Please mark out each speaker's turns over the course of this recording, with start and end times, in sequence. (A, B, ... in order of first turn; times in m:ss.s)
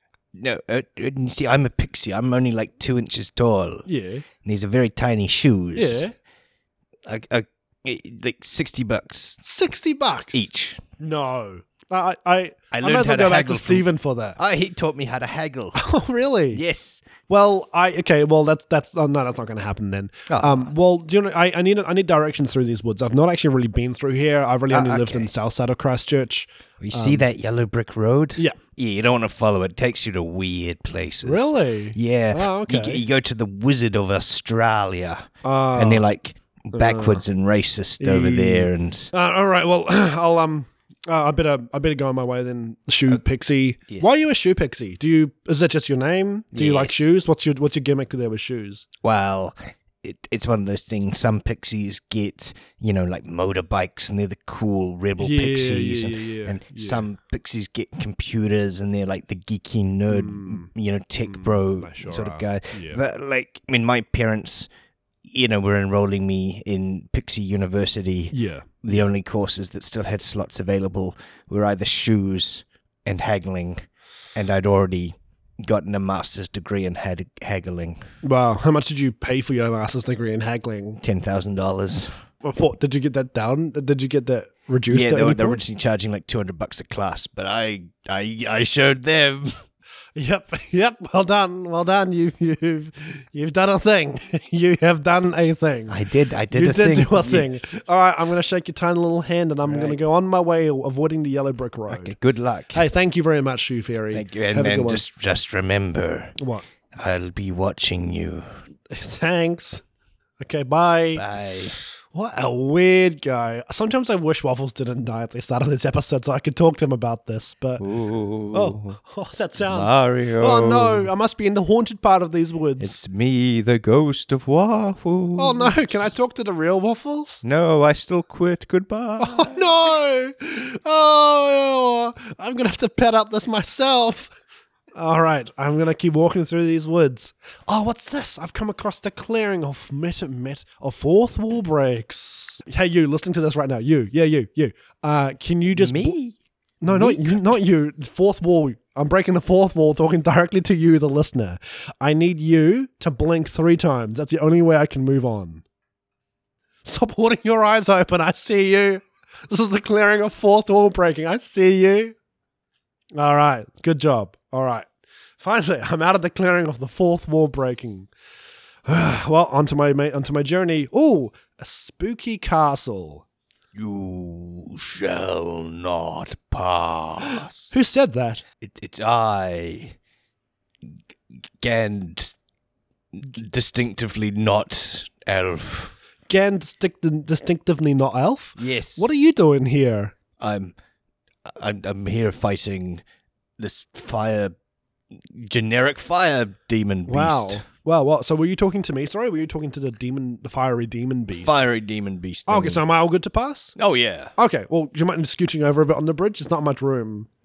0:00.3-0:03.8 A
0:03.8-0:04.2 B
0:04.4-0:06.0 A
0:05.7-0:06.1 B
0:07.0-0:09.4 A
0:09.4-0:10.4 B
0:10.3-0:10.8 A
0:11.0-0:14.4 B
0:12.7-0:15.8 A
0:15.7-0:16.6 B
0:16.5-0:17.0 A
0:17.3-0:27.2 B
0:20.3-0:20.7 A
0:24.7-0:25.3 A
0:26.8-0:39.1 A
0:31.2-0:33.0 B
0:35.4-0:36.0 B
0:36.7-0:37.2 B
0:38.0-0:48.8 B
0:46.5-0:47.1 A
0:49.0-1:04.7 A
0:55.2-0:57.1 B
1:00.1-1:00.7 B
1:01.2-1:03.0 B
1:05.2-1:13.8 A
1:08.3-1:08.6 B
1:14.3-1:18.0 A
1:18.2-1:21.0 B
1:21.0-1:22.1 A
1:22.4-1:25.6 B
1:24.9-1:29.6 A
1:30.2-1:36.0 B
1:35.9-1:37.9 A
1:36.5-1:42.1 B
1:39.6-1:40.0 A
1:41.9-1:42.8 A
1:42.7-1:45.0 B
1:44.1-1:46.3 A
1:46.4-1:46.6 B
1:46.9-1:48.5 A
1:48.9-1:49.8 B
1:50.4-1:51.2 B
1:51.1-1:51.8 A
1:52.1-1:57.8 B
1:57.8-1:59.0 A
1:58.5-2:03.0 B
1:59.6-2:01.1 A
2:02.8-2:06.2 A
2:05.4-2:07.4 B
2:07.4-2:09.5 A
2:09.2-2:14.3 B
2:14.9-2:26.2 B
2:25.7-2:26.4 A
2:26.8-2:35.6 B
2:26.9-2:27.5 A
2:36.8-2:42.1 B
2:43.1-2:44.9 B
2:45.4-2:48.1 B
2:48.8-2:53.2 B
2:53.7-2:57.7 A
2:57.7-2:58.4 B
2:58.6-3:00.0 A
3:01.6-3:02.3 A
3:03.1-3:05.9 A
3:06.3-3:10.1 B
3:08.6-3:09.1 A
3:10.4-3:10.7 A
3:11.4-3:13.0 A
3:13.6-3:14.5 A
3:15.1-3:17.6 A
3:17.1-3:21.6 B
3:21.4-3:22.8 A
3:22.5-3:23.7 B
3:23.8-3:24.3 A
3:24.4-3:27.3 B